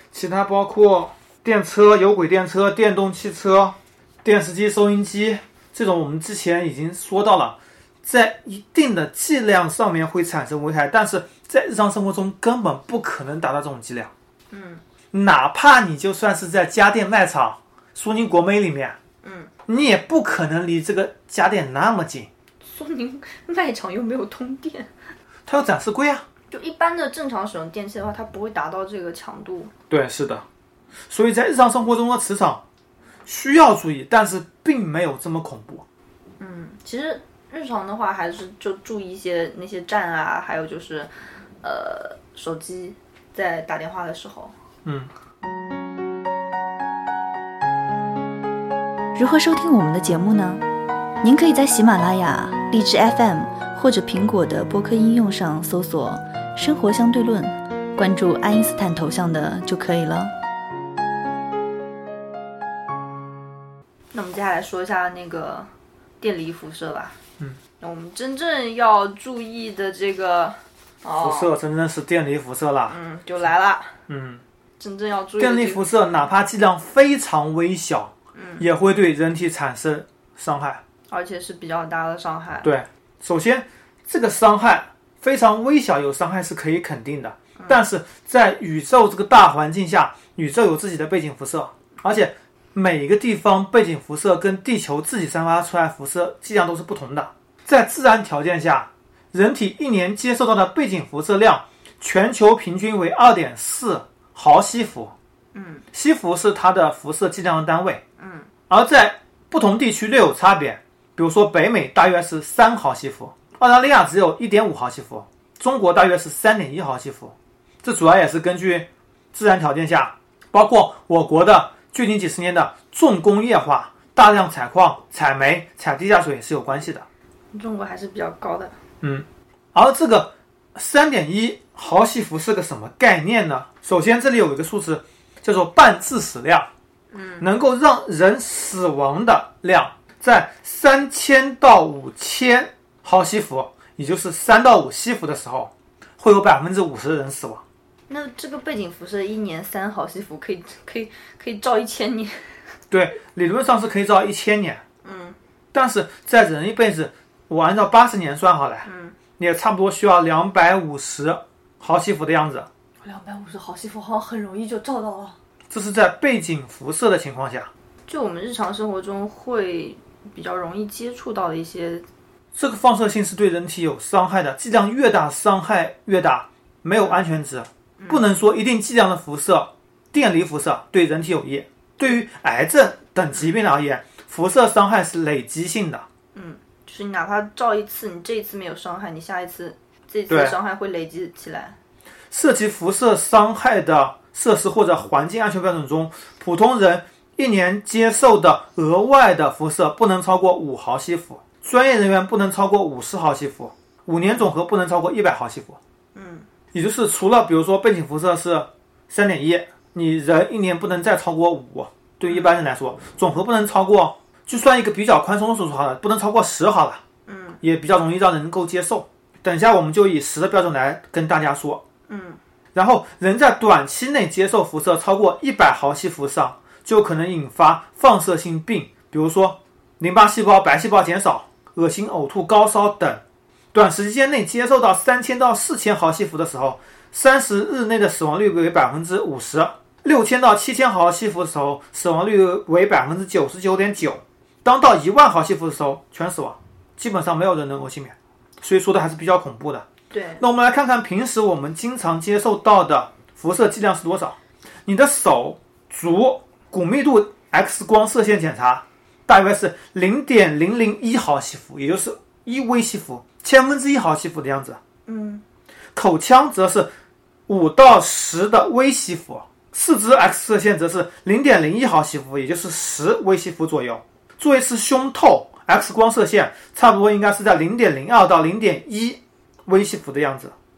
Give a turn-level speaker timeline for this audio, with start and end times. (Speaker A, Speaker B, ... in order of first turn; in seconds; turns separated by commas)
Speaker A: 0.1-14.1, Speaker B: 14.5-14.8, Speaker A: 15.1-19.0, Speaker B: 19.2-19.5, Speaker A: 19.7-22.3, Speaker B: 22.6-24.9, Speaker A: 25.5-26.2, Speaker B: 26.5-29.7, Speaker A: 29.9-30.4, Speaker A: 31.1-32.6, Speaker A: 33.2-35.8, Speaker B: 36.4-41.1, Speaker B: 41.6-44.5, Speaker C: 49.1-50.6, Speaker C: 51.2-60.3, Speaker B: 64.1-65.7, Speaker B: 66.2-67.2, Speaker B: 67.8-71.5, Speaker A: 71.2-73.0, Speaker B: 72.9-74.0, Speaker A: 74.1-74.4, Speaker B: 74.8-75.8, Speaker A: 75.4-80.8, Speaker B: 78.3-78.6, Speaker B: 81.1-82.7, Speaker A: 82.6-105.1, Speaker B: 105.5-105.8, Speaker A: 105.9-108.0, Speaker B: 108.2-108.5, Speaker A: 108.7-127.1, Speaker B: 127.5-128.7, Speaker A: 129.0-136.7, Speaker B: 137.1-137.5, Speaker A: 137.4-147.6, Speaker B: 148.1-152.6, Speaker A: 152.9-154.8, Speaker B: 155.0-155.4, Speaker A: 155.7-158.9, Speaker B: 158.8-159.2, Speaker A: 159.4-162.7, Speaker B: 163.0-165.3, Speaker A: 165.7-167.7, Speaker B: 168.1-172.1, Speaker A: 172.5-186.1, Speaker B: 178.0-178.2, Speaker B: 186.3-191.8, Speaker A: 190.3-190.6, Speaker A: 192.3-205.8, Speaker B: 206.1-206.5, Speaker A: 206.7-217.0, Speaker B: 212.3-212.5, Speaker B: 217.2-217.6, Speaker A: 217.6-221.8, Speaker B: 222.1-222.4, Speaker A: 222.7-233.2, Speaker A: 233.7-249.9, Speaker B: 250.1-250.4, Speaker A: 250.4-264.8, Speaker B: 265.1-265.4, Speaker A: 265.9-266.9, Speaker A: 267.5-280.5